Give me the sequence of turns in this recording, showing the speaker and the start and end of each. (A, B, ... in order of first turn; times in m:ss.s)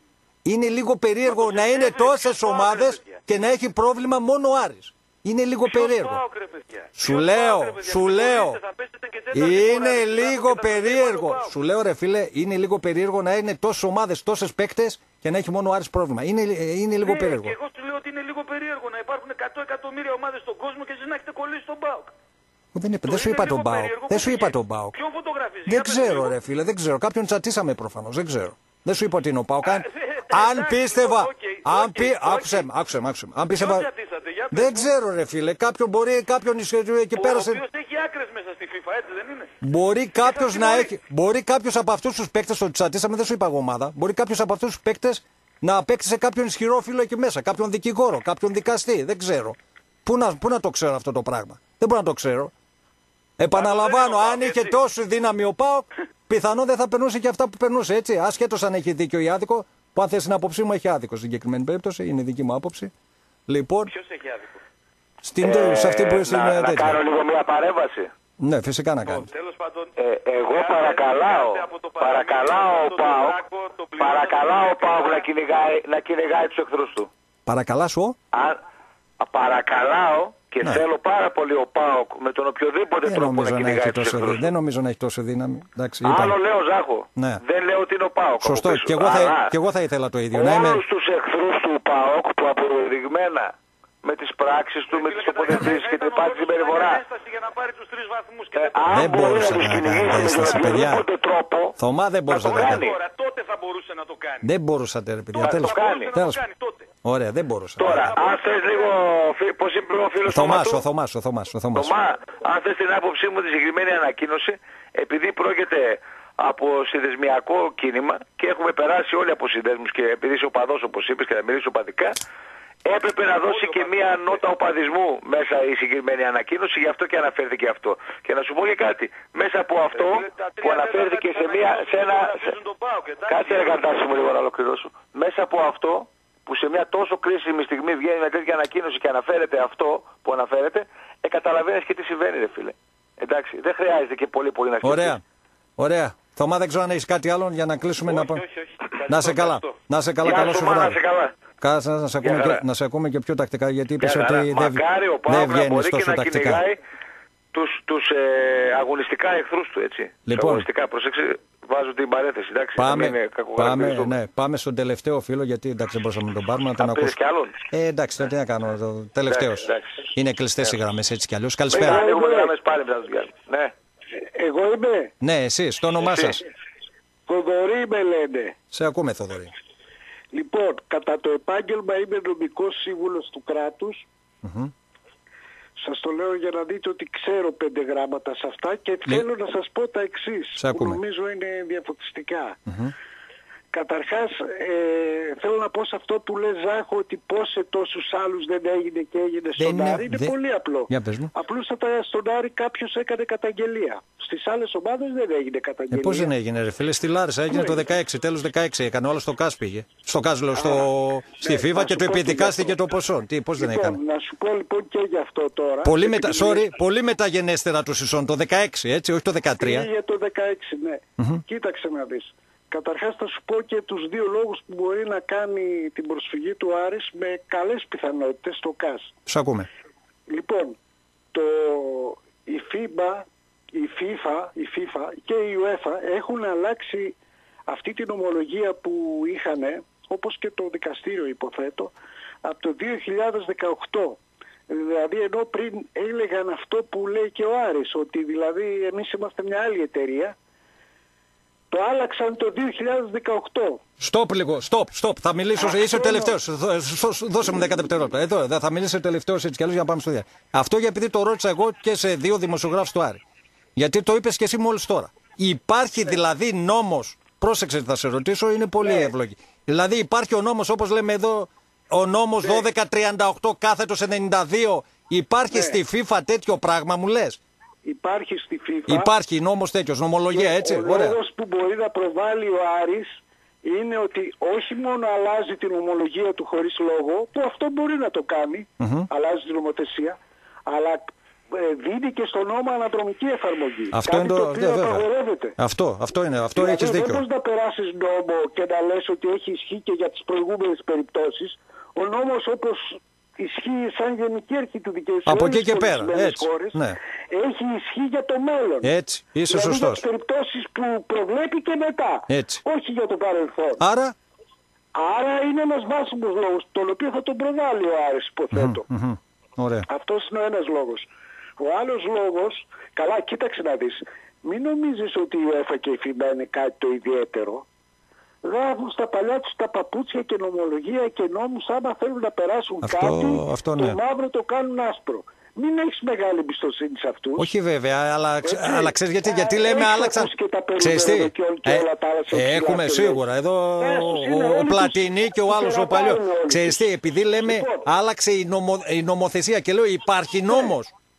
0:00.4-0:06.2 A
0:01.2-0:03.2 B
0:05.6-0:11.6 B
0:07.0-0:08.6 A
0:09.3-0:17.5 A
0:17.0-0:22.1 B
0:22.7-0:25.0 A
0:23.0-0:26.4 B
0:25.6-0:33.9 A
0:29.6-0:32.7 B
0:33.5-0:34.9 B
0:34.5-0:37.6 A
0:37.1-0:39.5 B
0:39.6-0:52.5 A
0:40.2-0:40.9 B
0:53.4-1:02.9 A
0:53.5-0:54.8 B
1:03.5-1:03.9 A
1:03.8-1:04.6 B
1:05.2-1:07.0 A
1:05.4-1:08.1 C
1:08.4-1:09.3 A
1:09.0-1:15.3 B
1:10.0-1:13.4 C
1:14.0-1:17.1 C
1:17.4-1:18.2 A
1:18.3-1:18.6 C
1:19.2-1:24.5 C
1:23.0-1:26.4 A
1:26.0-1:29.5 C
1:27.2-1:27.4 A
1:28.4-1:30.8 A
1:30.3-1:37.0 C
1:34.9-1:39.6 B
1:38.5-1:41.8 C
1:38.9-1:41.0 A
1:40.1-1:40.8 B
1:41.8-1:42.8 A
1:42.3-1:44.5 B
1:42.3-1:43.0 C
1:44.4-1:46.4 A
1:45.3-1:46.9 B
1:45.4-1:46.1 C
1:47.0-1:48.1 A
1:47.8-1:50.8 C
1:47.8-1:49.0 B
1:50.2-1:51.9 A
1:51.7-2:02.2 C
2:02.8-2:12.5 C
2:03.3-2:04.4 B
2:09.9-2:13.8 B
2:13.3-2:25.2 C
2:24.8-2:25.2 A
2:25.8-2:28.4 A
2:28.0-2:29.8 B
2:29.1-2:31.0 A
2:30.2-2:31.3 C
2:31.6-2:36.6 A
2:32.2-2:32.6 C
2:34.0-2:36.8 C
2:37.5-2:44.2 C
2:40.2-2:40.7 A
2:42.8-2:47.2 A
2:46.8-2:47.6 C
2:47.7-2:52.1 A
2:49.3-2:50.1 C
2:51.7-2:53.7 C
2:51.8-2:52.5 D
2:54.3-2:55.1 D
2:55.2-2:56.4 A
2:56.0-2:56.3 C
2:57.3-2:58.5 D
2:58.7-2:59.5 A
3:00.3-3:04.1 D
3:04.4-3:04.7 A
3:05.8-3:12.6 D
3:10.6-3:11.0 A
3:12.7-3:12.9 A
3:13.7-3:26.3 D
3:19.6-3:21.3 A
3:25.9-3:34.0 A
3:27.5-3:27.8 D
3:30.5-3:30.8 D
3:31.4-3:32.8 D
3:33.6-3:36.7 D
3:35.8-3:39.9 A
3:39.6-3:49.2 D
3:49.3-3:49.7 A
3:50.3-3:50.8 D
3:51.3-3:57.1 D
3:57.7-4:10.3 D
4:11.7-4:13.8 D
4:14.0-4:23.2 A
4:15.6-4:16.3 D
4:23.8-4:37.4 A
4:35.5-4:35.8 D
4:37.8-4:39.1 D
4:38.9-4:41.2 A
4:40.3-4:55.6 D
4:48.8-4:49.1 A
4:53.9-4:57.2 A
4:56.5-5:08.9 D
5:05.2-5:07.0 A
5:08.8-5:10.0 A
5:09.5-5:13.8 D
5:12.3-5:12.6 A
5:13.8-5:14.1 A
5:14.9-5:18.9 D
5:18.5-5:19.9 A
5:19.9-5:27.6 D
5:28.4-5:37.5 D
5:32.8-5:34.0 A
5:37.4-5:50.9 A
5:38.4-5:43.2 D
5:43.8-5:46.8 D
5:47.4-5:47.8 D